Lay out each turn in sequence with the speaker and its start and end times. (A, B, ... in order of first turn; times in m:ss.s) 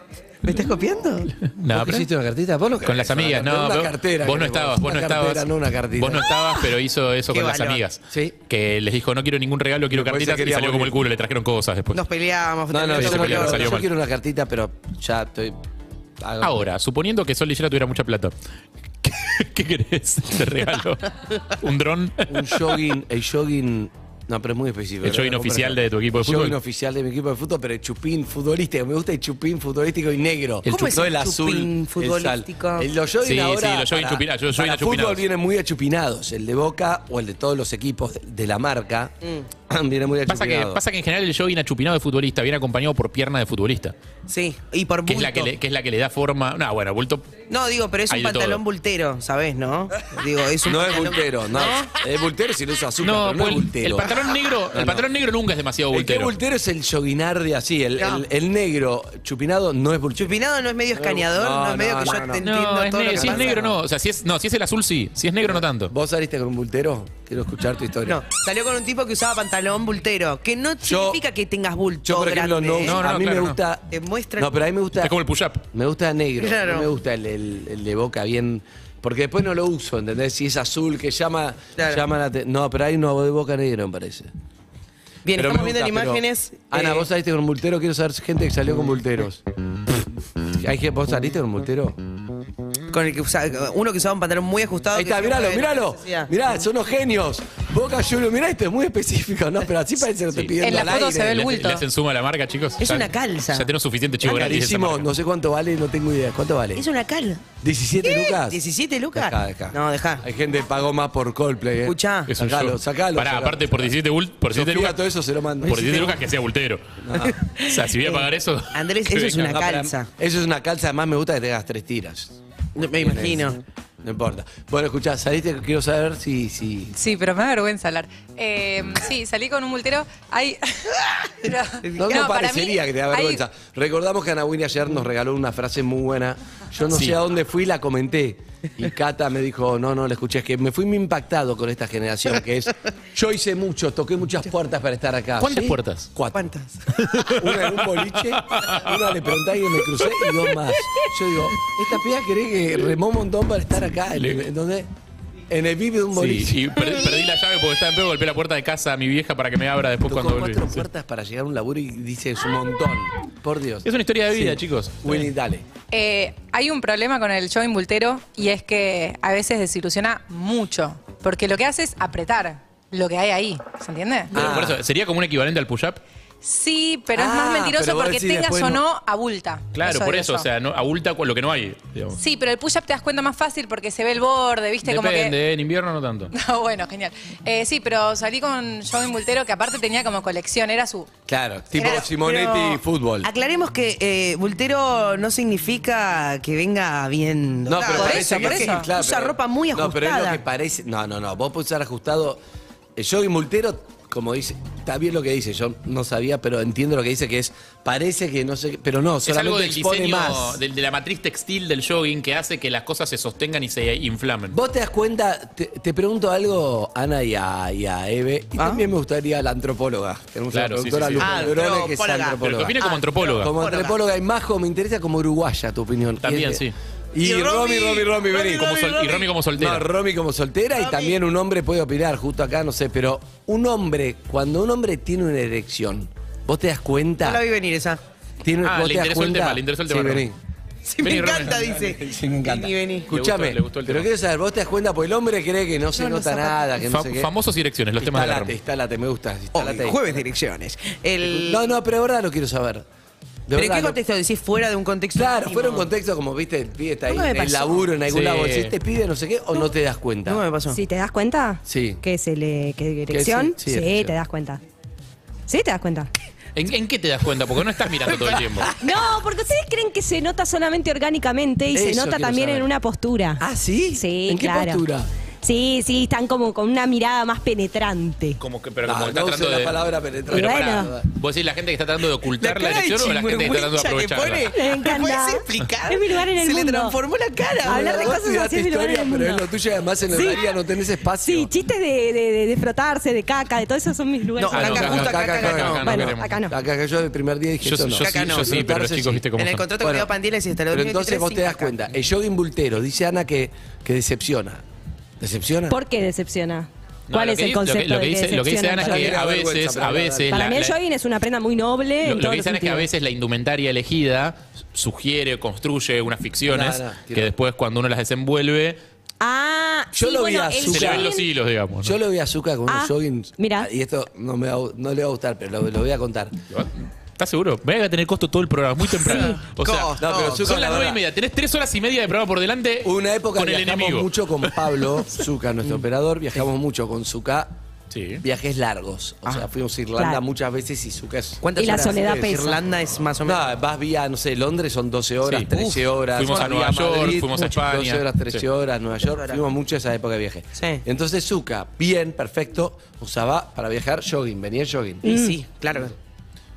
0:00.4-0:01.3 A
0:01.4-0:02.1 B
0:01.7-0:06.3 C
0:02.8-0:12.0 B
0:07.3-0:07.8 A
0:08.1-0:08.4 C
0:09.9-0:11.0 C
0:11.9-0:13.8 A
0:12.7-0:15.6 C
0:12.9-0:13.9 B
0:16.2-0:16.6 C
0:16.4-0:18.3 B
0:19.0-0:22.8 B
0:22.3-0:39.1 C
0:25.0-0:26.6 B
0:30.6-0:31.0 B
0:30.6-0:32.9 A
0:33.2-0:35.2 B
0:39.7-0:40.8 C
0:40.3-0:43.9 B
0:44.3-0:45.5 A
0:45.0-0:47.3 B
0:47.5-0:51.9 A
0:48.1-0:48.6 B
0:50.6-0:55.1 C
0:53.0-0:56.3 B
0:55.9-1:00.3 C
1:00.2-1:03.7 A
1:00.9-1:02.4 C
1:02.4-1:05.9 B
1:03.1-1:03.8 C
1:05.4-1:08.2 C
1:08.0-1:13.0 A
1:10.8-1:11.2 C
1:12.0-1:15.1 C
1:12.8-1:13.6 B
1:13.9-1:14.5 A
1:15.0-1:15.6 B
1:15.7-1:24.3 C
1:16.4-1:16.9 A
1:21.8-1:22.0 A
1:25.2-1:27.1 A
1:25.3-1:29.4 C
1:30.6-1:32.0 C
1:32.9-1:36.3 A
1:34.9-1:41.4 C
1:40.3-1:45.1 B
1:40.6-1:41.8 D
1:42.8-1:43.7 A
1:44.2-1:46.8 C
1:44.3-1:44.5 A
1:46.7-1:47.5 A
1:47.6-1:48.6 C
1:48.0-1:50.2 A
1:49.1-1:54.0 C
1:51.8-1:52.3 A
1:52.3-1:55.0 B
1:54.5-1:56.1 C
1:55.6-1:56.9 B
1:55.7-1:56.2 A
1:57.0-1:57.4 C
1:57.2-2:00.1 A
1:57.6-1:59.5 B
1:59.4-2:06.9 C
2:02.8-2:03.6 A
2:06.9-2:13.4 D
2:11.8-2:12.2 A
2:12.0-2:26.5 C
2:25.4-2:26.1 B
2:26.3-2:26.8 A
2:27.0-2:29.2 B
2:27.3-2:34.9 C
2:34.1-2:34.4 B
2:35.5-2:37.0 C
2:36.1-2:40.9 B
2:40.0-2:45.6 C
2:43.8-2:45.3 B
2:45.9-2:54.3 D
2:54.3-2:54.8 C
2:54.3-2:56.0 B
2:56.4-3:00.5 D
2:57.1-2:58.8 C
2:59.7-3:02.2 B
3:02.2-3:05.4 D
3:04.8-3:06.3 B
3:06.3-3:11.1 D
3:11.3-3:13.3 C
3:11.8-3:20.4 A
3:17.6-3:22.4 C
3:17.8-3:18.9 D
3:23.0-3:30.6 C
3:29.2-3:34.6 B
3:34.5-3:49.0 C
3:38.6-3:38.8 A
3:40.5-3:41.6 B
3:41.2-3:44.0 A
3:42.4-3:43.5 B
3:46.2-3:46.7 B
3:47.2-3:49.2 A
3:48.4-3:49.9 B
3:49.6-3:57.4 C
3:50.8-3:51.1 A
3:57.2-3:58.0 A
3:58.4-4:00.4 C
3:58.6-4:00.3 B
4:00.8-4:03.1 A
4:01.0-4:01.6 B
4:01.4-4:07.3 C
4:03.1-4:04.1 B
4:05.9-4:06.7 A
4:06.8-4:08.5 B
4:08.0-4:10.2 C
4:09.5-4:11.6 A
4:11.2-4:12.8 C
4:13.5-4:14.0 C
4:13.5-4:15.9 A
4:15.1-4:20.4 C
4:17.1-4:17.9 A
4:18.1-4:18.7 B
4:20.2-4:20.8 A
4:20.7-4:24.6 E
4:21.6-4:22.0 C
4:23.1-4:24.1 C
4:25.5-4:26.1 E
4:26.5-4:28.7 B
4:28.8-4:33.4 E
4:31.7-4:32.7 C
4:33.4-4:35.1 C
4:33.9-4:34.8 E
4:35.4-4:38.4 E
4:38.4-4:44.5 B
4:38.8-4:41.1 C
4:40.3-4:40.9 E
4:42.4-4:48.2 A
4:44.5-4:47.0 E
4:47.6-4:49.4 E
4:47.6-4:51.5 C
4:50.1-4:50.4 E
4:51.2-4:55.0 E
4:54.4-4:56.0 A
4:54.5-4:56.3 B
4:54.6-4:59.2 C
4:55.8-4:56.5 E
4:57.6-4:59.7 B
4:58.0-4:58.6 A
4:59.3-5:01.8 A
4:59.8-5:00.1 C
5:00.7-5:04.6 C
5:05.2-5:05.8 C
5:05.7-5:09.1 E
5:07.1-5:10.8 B
5:08.8-5:10.5 C
5:10.3-5:12.9 E
5:12.0-5:18.8 B
5:16.4-5:17.3 C
5:19.2-5:21.3 E
5:19.9-5:21.1 C
5:20.7-5:22.0 B
5:21.8-5:26.4 C
5:22.7-5:23.7 E
5:26.5-5:34.5 B
5:29.0-5:30.8 A
5:29.0-5:29.4 E
5:30.0-5:31.0 C
5:32.8-5:37.6 C
5:37.9-5:38.2 B
5:38.2-5:42.3 C
5:41.4-5:43.4 A
5:41.6-5:42.6 E
5:43.2-5:55.0 C
5:45.5-5:45.8 A
5:46.1-5:48.4 B
5:49.1-5:49.4 A
5:50.6-5:50.8 A
5:55.0-5:55.3 E
5:55.0-5:55.9 A